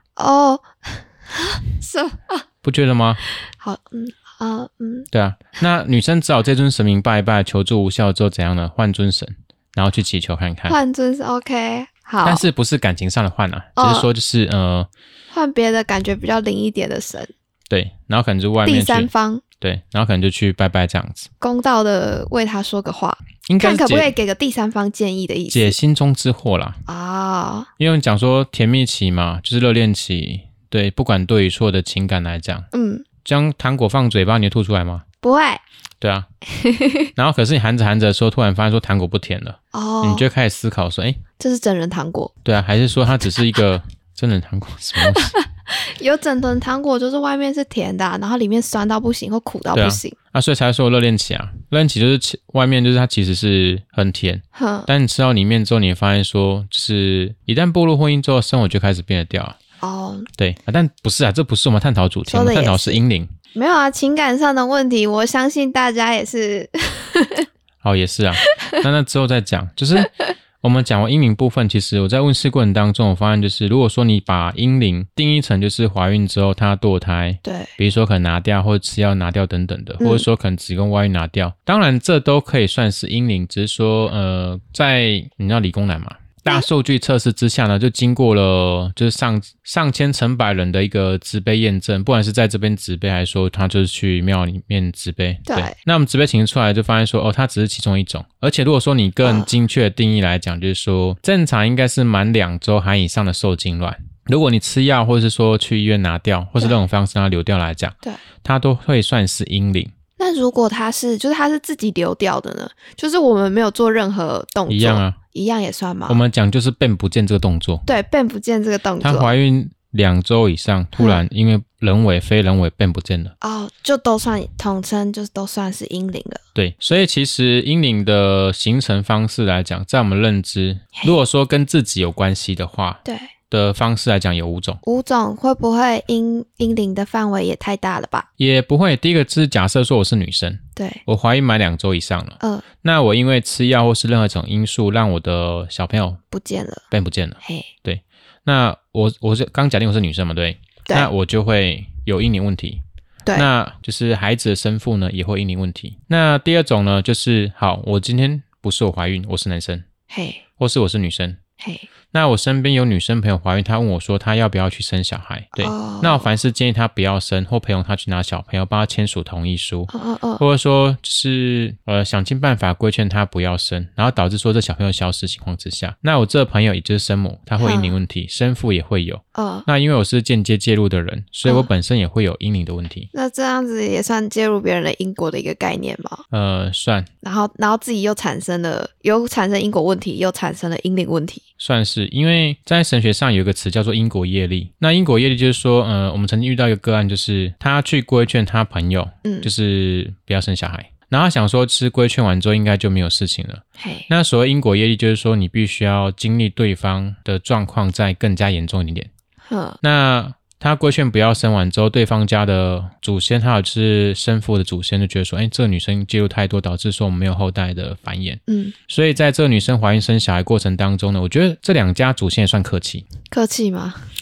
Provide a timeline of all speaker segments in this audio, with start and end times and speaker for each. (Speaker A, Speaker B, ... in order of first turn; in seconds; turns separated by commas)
Speaker A: 0.2-2.4, Speaker B: 2.6-3.2, Speaker A: 3.4-5.1, Speaker B: 5.1-10.8, Speaker A: 10.7-12.5, Speaker B: 12.2-14.9, Speaker A: 13.8-14.1, Speaker A: 15.3-17.3, Speaker B: 17.7-21.3, Speaker A: 18.6-19.4, Speaker A: 21.4-25.8, Speaker B: 23.5-24.1, Speaker B: 25.5-26.8, Speaker A: 26.9-27.7, Speaker B: 27.8-32.7, Speaker A: 32.7-33.1, Speaker B: 33.2-35.0, Speaker A: 35.2-35.6, Speaker B: 36.0-36.3, Speaker A: 36.5-37.1, Speaker B: 37.2-41.2, Speaker A: 39.7-40.3, Speaker A: 41.4-42.3, Speaker B: 42.5-45.4, Speaker A: 45.0-50.2, Speaker B: 49.7-59.6, Speaker A: 54.5-54.9, Speaker A: 59.8-60.3, Speaker B: 60.4-63.3, Speaker A: 62.3-63.0, Speaker A: 63.5-67.5, Speaker B: 67.8-109.9, Speaker A: 68.4-68.8, Speaker A: 77.4-77.8, Speaker A: 80.0-80.3, Speaker A: 95.5-95.8, Speaker A: 99.2-99.5, Speaker A: 110.2-116.2, Speaker B: 114.7-115.2, Speaker B: 116.1-117.9, Speaker A: 117.9-119.3, Speaker B: 119.0-123.3, Speaker A: 121.0-121.2, Speaker A: 123.4-126.4, Speaker B: 126.5-134.8, Speaker A: 133.1-133.3, Speaker A: 134.8-138.3, Speaker B: 138.4-146.2, Speaker A: 140.8-141.0, Speaker A: 142.4-142.7, Speaker A: 146.3-146.8, Speaker B: 146.9-152.8, Speaker A: 147.4-147.7, Speaker B: 153.3-159.9, Speaker A: 160.1-160.4, Speaker B: 160.6-161.4, Speaker A: 161.6-161.9, Speaker B: 162.1-183.1, Speaker A: 165.6-166.3, Speaker A: 169.9-170.4, Speaker A: 177.6-178.0, Speaker A: 179.3-179.7, Speaker A: 183.1-186.2, Speaker B: 186.3-187.1, Speaker A: 187.2-191.4, Speaker B: 191.6-209.1, Speaker A: 199.2-199.5, Speaker A: 203.8-204.1, Speaker A: 209.5-209.8, Speaker B: 209.8-223.1, Speaker A: 218.5-218.8, Speaker A: 223.3-224.1